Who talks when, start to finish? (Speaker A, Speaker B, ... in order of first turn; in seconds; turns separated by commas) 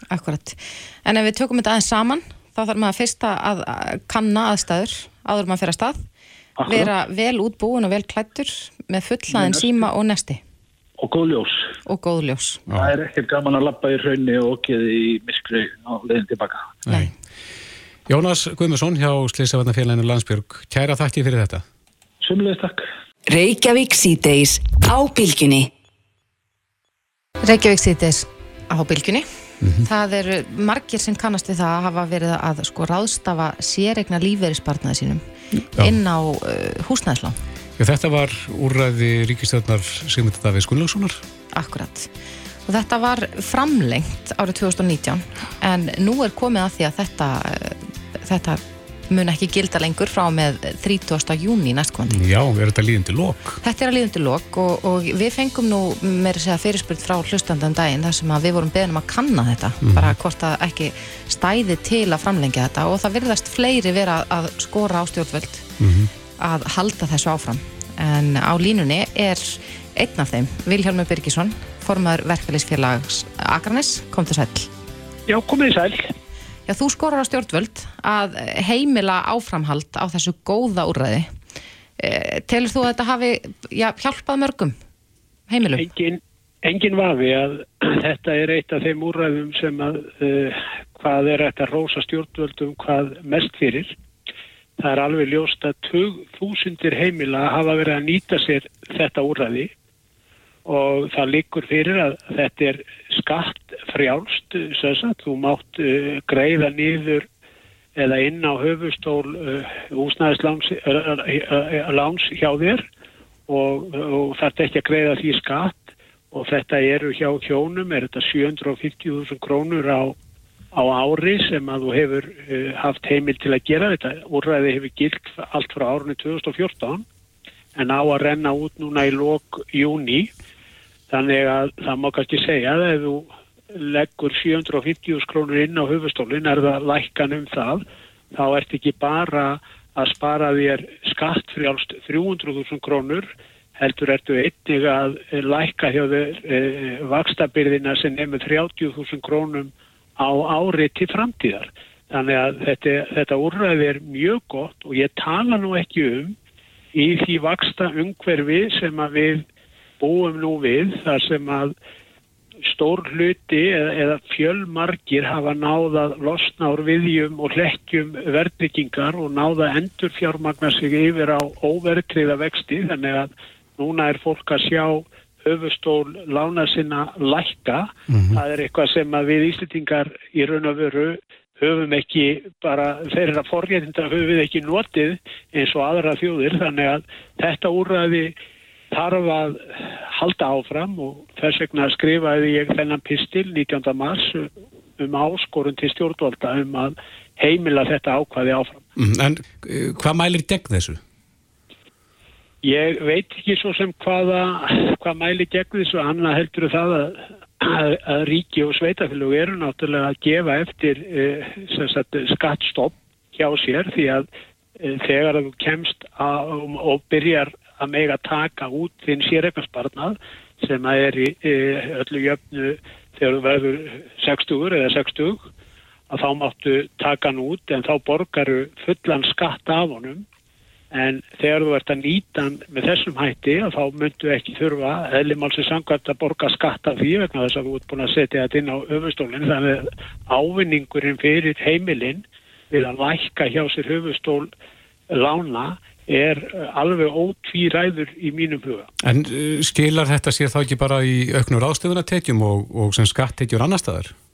Speaker A: 0.1-6.0, Speaker B: 6.6-6.9, Speaker A: 6.7-10.4, Speaker B: 9.3-9.9, Speaker B: 11.0-11.7, Speaker A: 11.8-12.6, Speaker B: 12.7-16.7, Speaker C: 16.9-17.1, Speaker C: 18.1-21.6, Speaker B: 22.2-22.9, Speaker D: 23.3-25.7, Speaker A: 27.4-29.2, Speaker C: 29.6-29.9, Speaker A: 29.8-35.2, Speaker C: 35.6-36.0, Speaker A: 35.7-37.4, Speaker C: 37.8-41.2, Speaker A: 41.5-42.1, Speaker A: 42.7-52.2, Speaker C: 52.1-53.6, Speaker A: 53.6-65.7, Speaker C: 59.8-60.1, Speaker C: 65.8-66.1, Speaker A: 66.4-74.7, Speaker E: 75.3-76.1, Speaker A: 76.7-81.3, Speaker A: 82.0-84.7, Speaker A: 85.5-85.9, Speaker E: 85.8-94.0, Speaker E: 94.8-99.7, Speaker E: 100.7-107.2, Speaker E: 108.0-112.8, Speaker E: 113.5-120.2, Speaker E: 120.7-127.0, Speaker E: 127.7-130.3, Speaker E: 131.1-156.3, Speaker E: 156.9-159.4, Speaker E: 160.0-161.7, Speaker E: 162.7-188.3, Speaker C: 178.1-178.4, Speaker E: 188.9-198.8, Speaker C: 198.9-201.0, Speaker E: 202.6-214.2, Speaker E: 214.8-225.5, Speaker E: 226.1-230.2, Speaker E: 230.9-244.5, Speaker E: 245.1-248.9, Speaker C: 249.0-254.1